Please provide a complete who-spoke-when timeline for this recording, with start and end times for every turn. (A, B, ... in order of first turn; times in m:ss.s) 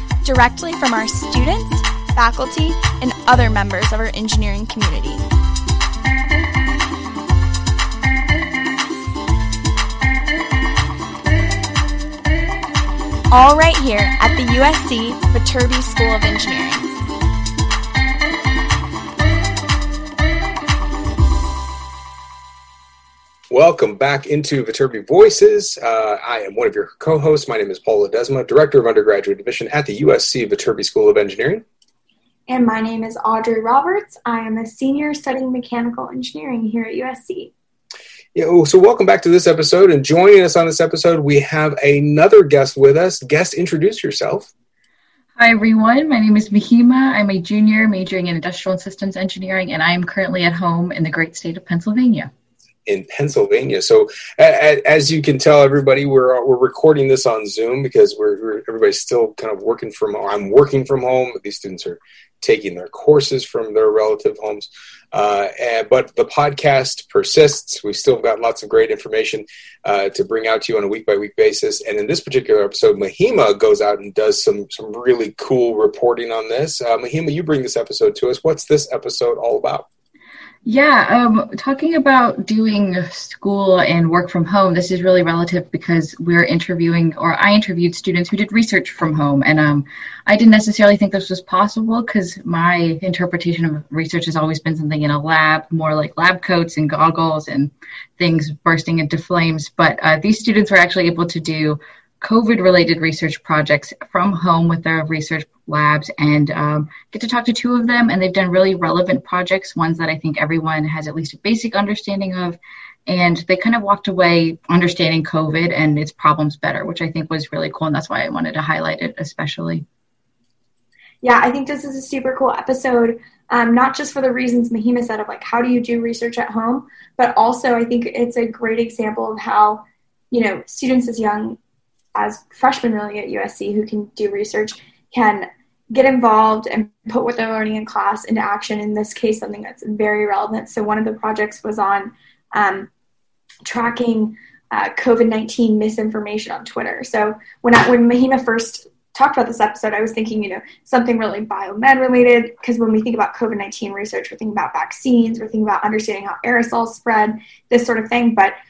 0:00.2-0:05.2 A
0:13.3-0:16.9 A
0:23.5-0:31.6 B
0:32.5-0:37.5 C
0:38.3-0:44.5 B
0:45.4-0:52.3 D
0:52.8-1:19.8 B
1:20.6-1:59.8 D
2:01.2-2:11.6 C
2:12.1-2:22.9 C
2:23.6-2:38.6 C